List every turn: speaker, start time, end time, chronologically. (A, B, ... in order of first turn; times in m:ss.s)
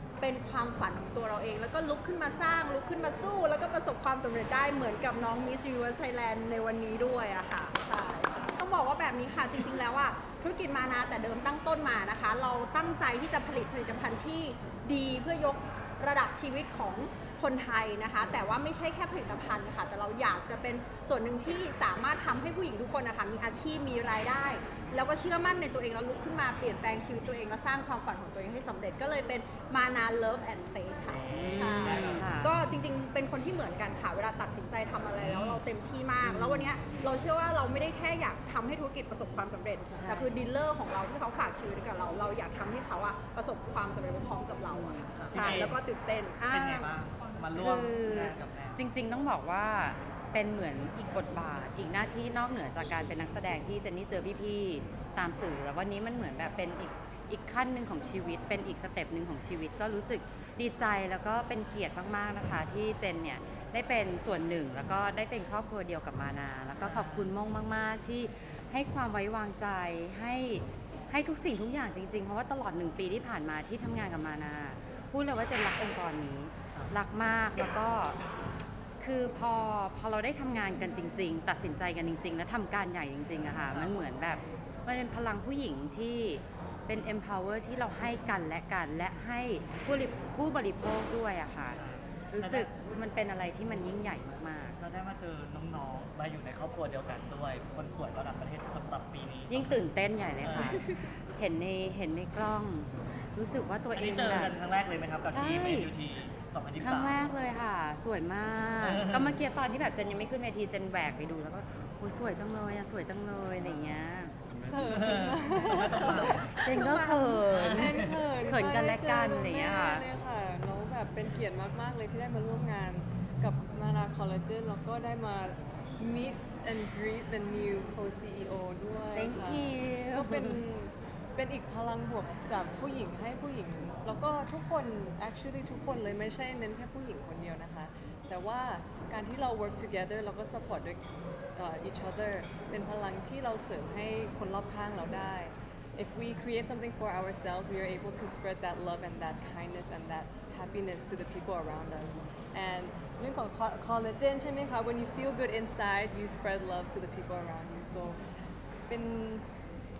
0:00.2-0:46.9 A
0:31.3-0:32.5 B
0:31.9-0:32.2 C
0:35.2-0:35.6 C
0:36.2-0:36.7 B
0:40.0-0:40.3 B
0:44.7-0:45.0 B
0:45.1-0:45.8 C
0:46.5-0:48.8 C
0:47.6-1:18.2 B
1:06.8-1:07.3 C
1:19.0-1:34.8 B
1:23.6-1:24.0 C
1:31.7-1:32.7 C
1:34.8-1:39.8 C
1:39.5-1:44.6 B
1:40.4-1:40.9 C
1:43.9-1:47.2 C
1:45.3-1:45.9 B
1:46.8-1:54.4 B
1:48.8-1:49.4 C
1:53.6-1:54.0 C
1:54.6-2:21.0 D
1:54.7-1:56.7 C
1:56.5-1:57.9 B
1:57.5-1:58.1 C
1:58.4-2:00.0 B
2:09.2-2:10.6 B
2:21.6-2:38.2 D
2:38.9-2:39.5 D